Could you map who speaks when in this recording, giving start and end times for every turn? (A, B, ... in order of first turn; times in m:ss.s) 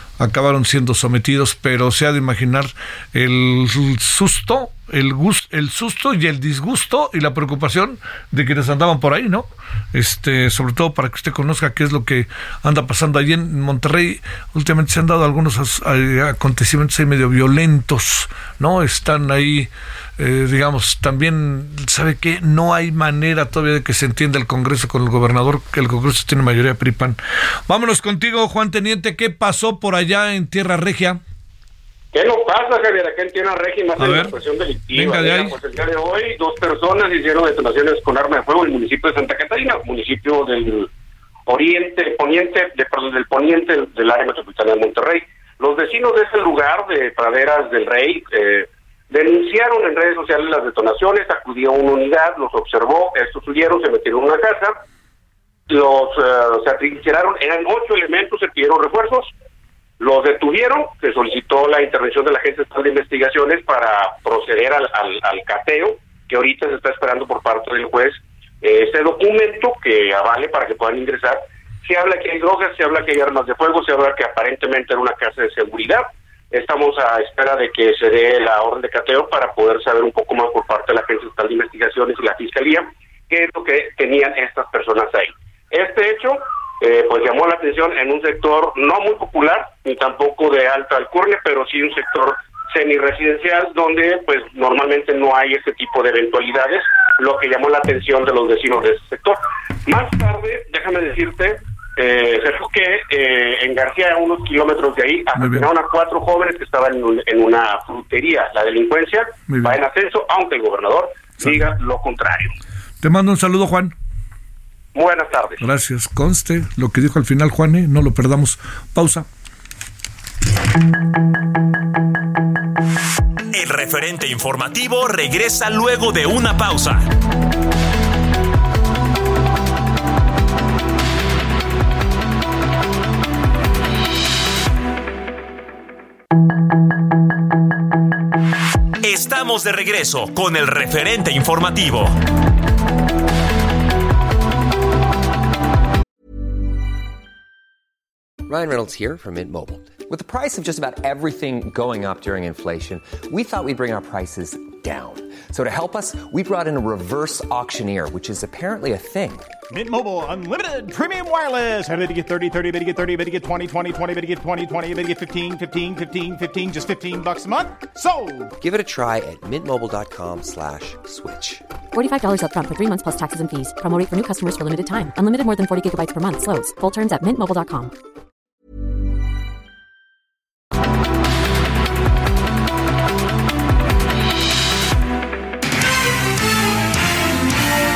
0:00.2-0:31.2 A
0:32.1-0:40.9 B
0:34.0-0:34.3 A
0:34.9-0:35.6 A
0:41.5-0:54.8 B
0:55.7-0:59.3 B
1:00.0-1:52.5 B
1:45.4-1:45.7 A
1:49.5-1:49.8 A
1:53.0-1:53.9 A
1:54.9-1:55.6 B
1:55.6-1:59.2 A
2:03.5-2:07.1 C
2:19.0-2:22.2 C
2:28.4-2:39.5 D
2:39.7-2:48.5 E
2:48.6-2:51.6 D
2:51.9-2:57.9 F